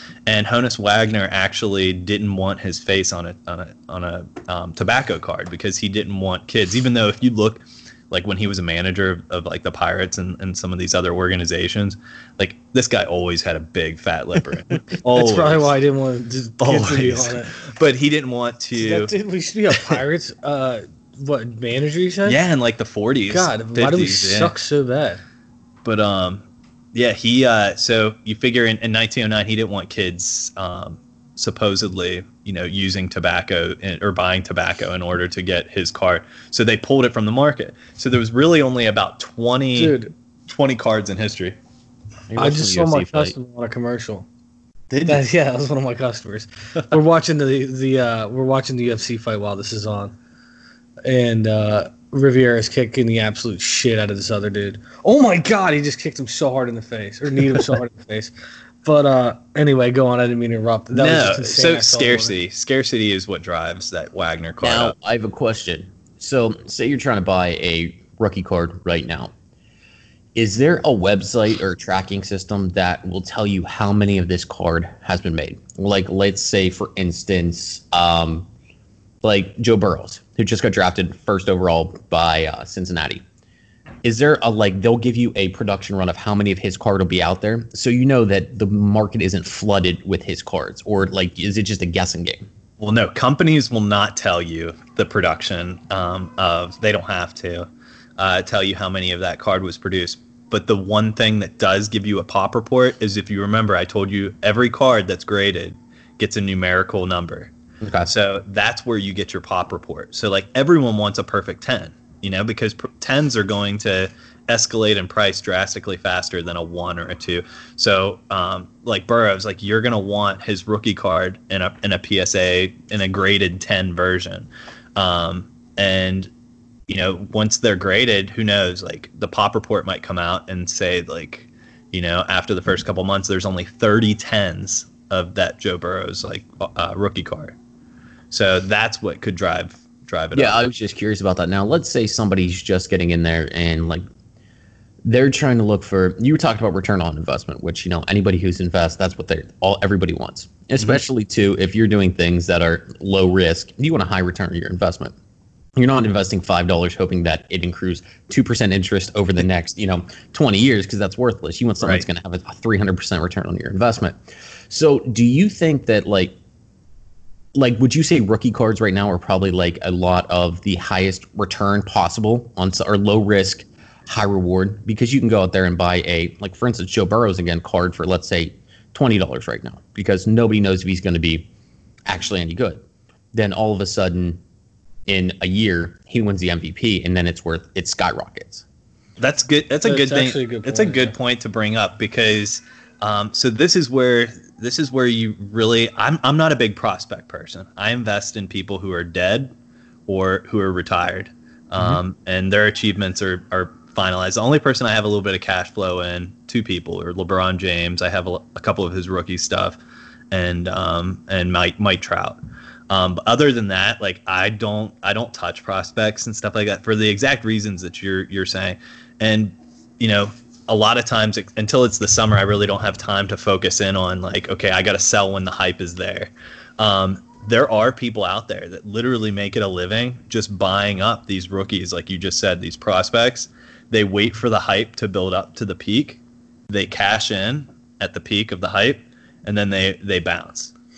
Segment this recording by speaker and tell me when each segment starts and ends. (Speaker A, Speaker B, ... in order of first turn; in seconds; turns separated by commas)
Speaker A: 0.2-15.7, Speaker B: 15.1-17.5, Speaker A: 16.6-19.1, Speaker B: 18.7-22.4, Speaker A: 19.7-20.0, Speaker A: 22.2-24.5, Speaker B: 23.3-25.2, Speaker A: 25.8-41.6, Speaker B: 39.8-40.1, Speaker C: 42.3-43.3, Speaker B: 42.4-44.2, Speaker A: 44.9-45.2, Speaker B: 45.0-50.1, Speaker B: 51.0-58.3, Speaker B: 58.8-62.4, Speaker A: 60.9-64.9, Speaker C: 64.6-69.3, Speaker C: 70.3-78.5, Speaker C: 79.2-83.2, Speaker C: 84.0-92.5, Speaker A: 92.8-107.5, Speaker C: 107.8-108.1, Speaker A: 108.0-126.3, Speaker A: 126.9-137.6, Speaker A: 138.3-140.6, Speaker C: 140.3-144.0, Speaker C: 145.0-155.1, Speaker C: 155.8-164.2, Speaker C: 164.7-166.3, Speaker C: 167.5-181.5, Speaker C: 182.1-184.4, Speaker C: 185.1-188.6, Speaker A: 189.2-199.5, Speaker B: 189.8-191.1, Speaker A: 200.1-209.8, Speaker C: 201.8-202.0, Speaker A: 210.3-240.7